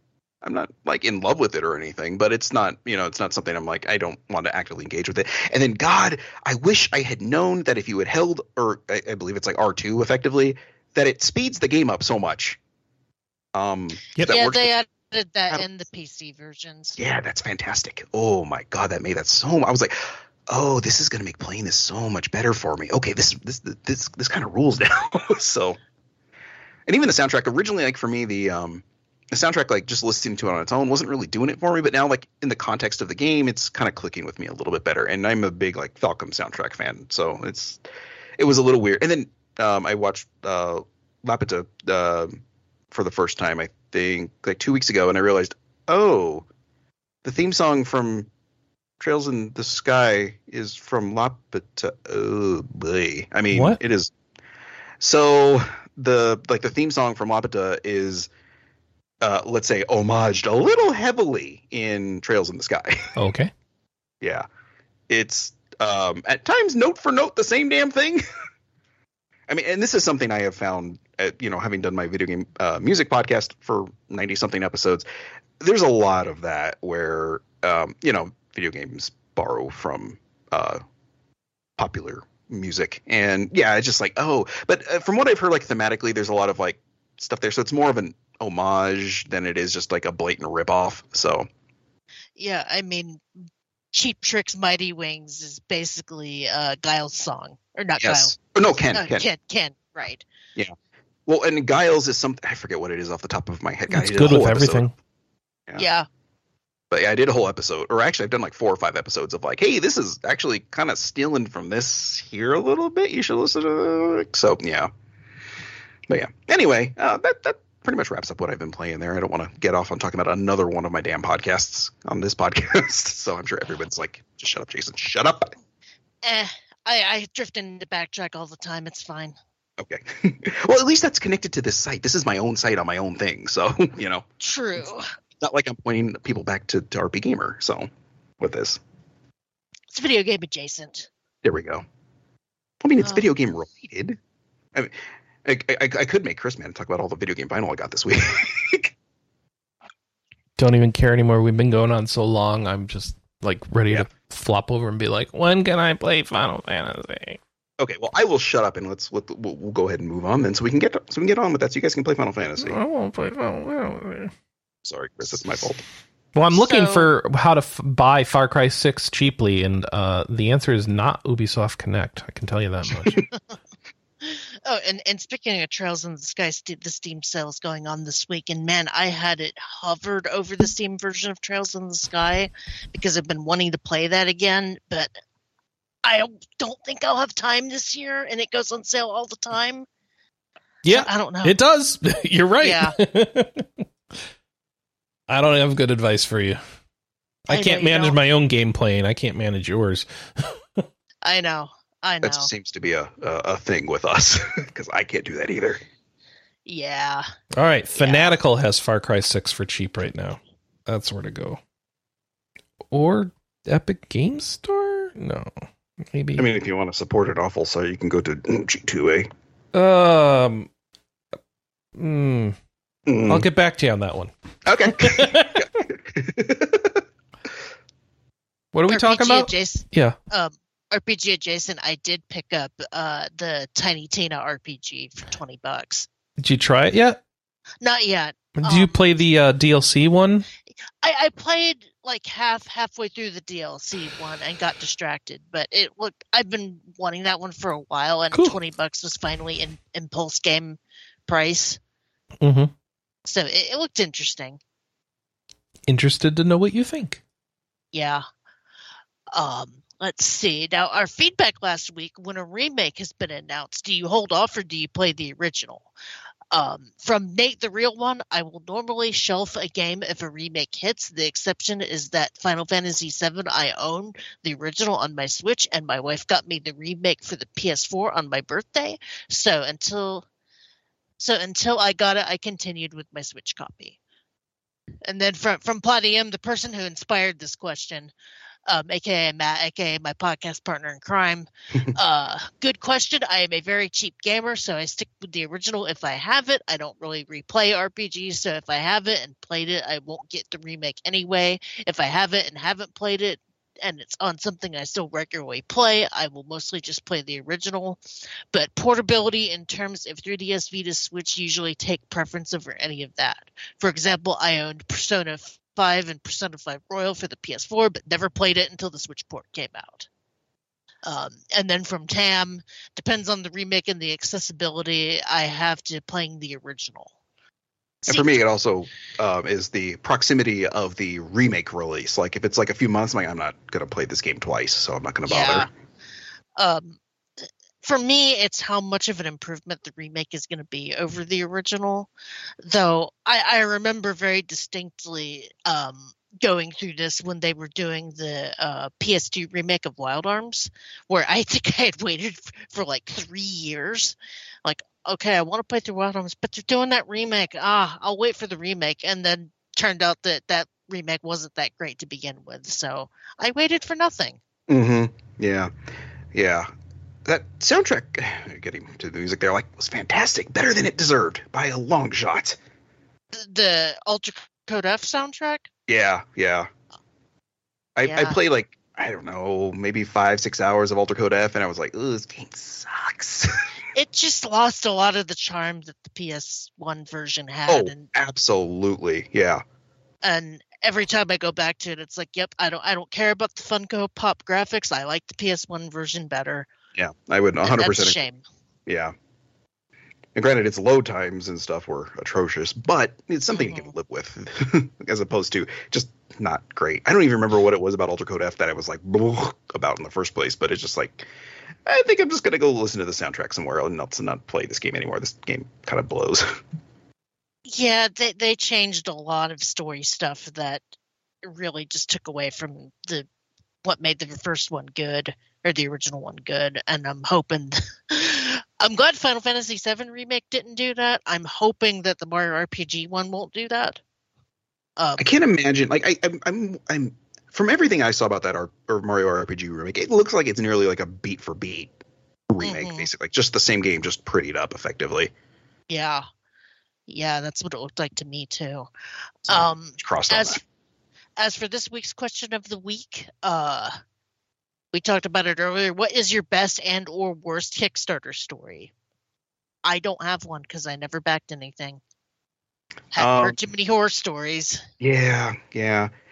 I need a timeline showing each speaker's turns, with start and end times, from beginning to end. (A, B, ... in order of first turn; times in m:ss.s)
0:00.4-0:12.6 A
0:13.5-0:14.7 A
0:14.2-0:17.0 B
0:17.0-0:25.8 A
0:26.9-0:37.8 A
0:38.4-0:42.4 A
0:42.9-0:46.4 A
0:47.2-0:48.3 A
0:49.0-0:54.1 A
0:53.5-0:53.8 C
0:55.0-0:58.3 A
0:59.2-1:03.0 A
1:03.2-1:03.5 C
1:05.1-1:08.2 A
1:09.5-1:15.0 A
1:15.6-1:20.8 A
1:21.8-1:31.5 A
1:32.4-1:33.2 B
1:33.9-1:38.3 B
1:38.0-1:39.2 A
1:38.9-1:40.2 B
1:41.2-1:44.8 A
1:43.9-1:44.9 C
1:45.8-1:46.0 B
1:46.9-1:54.9 A
1:56.1-2:05.5 A
2:06.2-2:09.3 B
2:09.8-2:14.2 A
2:14.4-2:15.0 B
2:15.4-2:17.9 A
2:18.4-2:18.8 A
2:19.9-2:21.1 B
2:21.4-2:21.8 A
2:22.8-2:24.2 A
2:23.0-2:23.2 B
2:24.7-2:28.9 A
2:30.6-2:37.4 C
2:37.8-2:42.8 A
2:42.6-2:44.3 C
2:44.8-2:45.8 A
2:46.3-2:53.2 C
2:46.5-2:47.1 B
2:54.2-3:05.1 B
3:06.0-3:09.9 B
3:10.8-3:13.7 C
3:10.9-3:11.5 B
3:12.6-3:13.0 B
3:15.3-3:16.6 C
3:17.5-3:20.8 C
3:17.5-3:18.2 B
3:21.2-3:22.5 B
3:22.2-3:25.8 A
3:26.6-3:27.2 B
3:27.6-3:31.6 C
3:28.0-3:28.4 B
3:32.9-3:35.5 C
3:36.1-3:36.5 C
3:36.4-3:39.3 A
3:39.7-3:40.7 C
3:42.0-3:42.6 C
3:43.1-3:43.5 A
3:43.3-3:44.3 C
3:44.6-3:47.0 A
3:44.9-3:45.7 C
3:48.7-3:50.2 C
3:48.9-3:56.1 B
3:56.4-3:57.2 C
3:57.8-3:59.2 B
3:58.6-4:00.4 C
4:01.0-4:11.8 B
4:12.4-4:12.7 C
4:13.2-4:14.6 B
4:15.9-4:17.2 C
4:17.9-4:18.2 B
4:19.3-4:25.9 B
4:26.5-4:40.2 B
4:41.2-4:44.0 B
4:45.0-4:48.1 B
4:48.7-5:08.0 B
5:08.5-5:20.1 B
5:21.0-5:27.1 B
5:28.0-5:35.7 A
5:28.1-5:28.4 B
5:35.3-5:35.7 B
5:36.6-5:37.0 B
5:37.8-5:42.1 B
5:42.6-6:04.4 B
6:04.7-6:05.7 A
6:06.3-6:06.7 A
6:07.2-6:12.6 A
6:13.3-6:15.7 B
6:15.9-6:16.7 A
6:18.0-6:23.5 A
6:18.0-6:18.4 B
6:23.9-6:28.1 B
6:27.7-6:29.6 A
6:30.2-6:36.7 B
6:37.0-6:38.2 A
6:37.6-6:38.4 B
6:38.8-6:39.1 A
6:40.3-6:51.3 A
6:43.5-6:43.9 B
6:51.8-6:56.4 A
6:57.6-7:00.8 B
7:01.4-7:03.3 B
7:03.8-7:14.0 B
7:15.0-7:15.3 B
7:15.2-7:21.9 A
7:22.5-7:25.3 A
7:22.6-7:23.1 B
7:25.9-7:26.2 B
7:27.1-7:28.9 B
7:29.4-7:30.6 B
7:29.5-7:30.6 A
7:31.4-7:33.9 B
7:34.9-7:38.9 B
7:39.8-7:42.0 B
7:43.1-7:44.8 B
7:43.2-7:43.6 A
7:45.0-7:46.1 A